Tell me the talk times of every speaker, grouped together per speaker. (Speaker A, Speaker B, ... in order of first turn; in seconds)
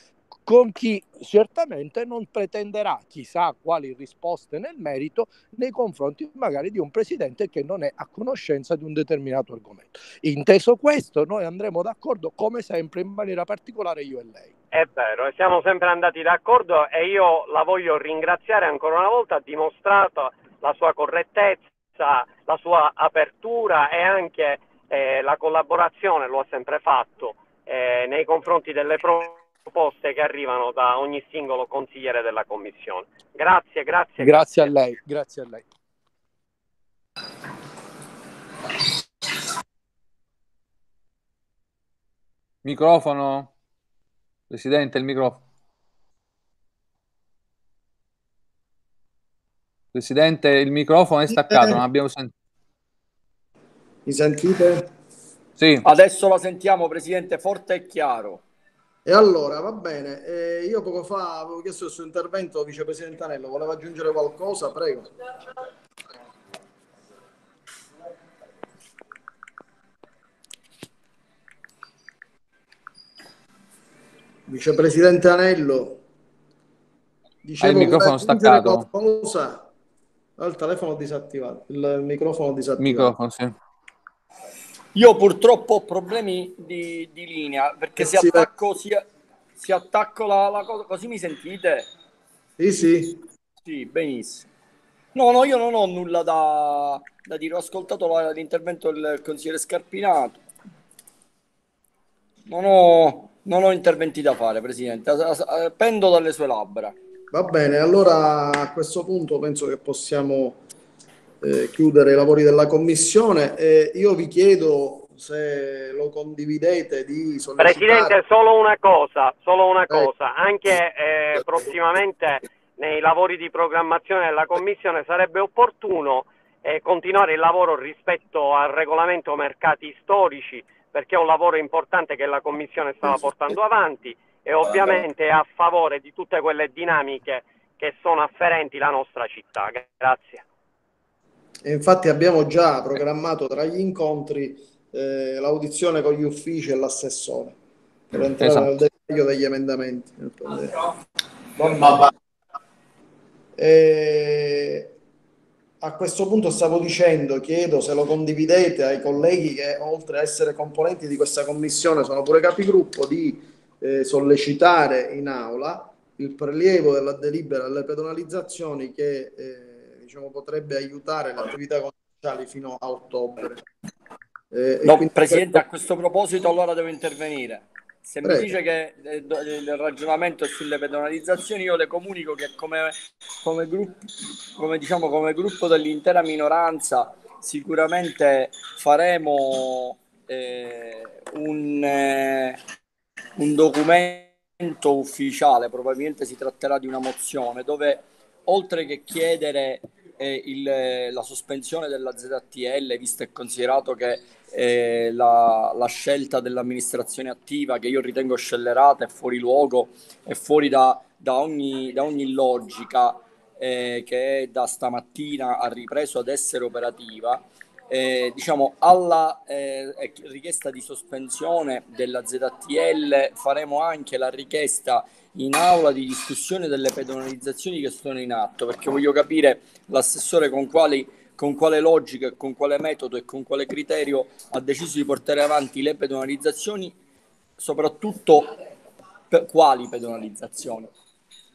Speaker A: 0.5-14.5, 34.2-35.6
Speaker B: 14.7-34.7, 117.6-140.4
Speaker C: 42.6-43.5, 44.5-45.4, 49.9-52.3, 55.6-55.9, 77.6-78.9, 82.8-83.5, 148.4-148.7
Speaker D: 51.3-51.8, 54.1-54.9, 59.0-65.1, 74.5-76.0, 77.4-79.7, 80.4-83.1, 88.0-88.5, 92.6-93.2, 107.3-110.6, 111.4-118.2, 141.6-147.6, 148.1-150.9, 151.6-152.1, 153.6-154.9, 155.8-173.6, 174.5-175.6, 178.2-178.6
Speaker E: 55.9-58.4, 85.0-89.1, 89.6-91.9, 93.7-94.5, 95.1-100.4, 102.5-107.0, 174.8-192.6, 193.4-237.0, 237.6-238.5, 239.3-240.9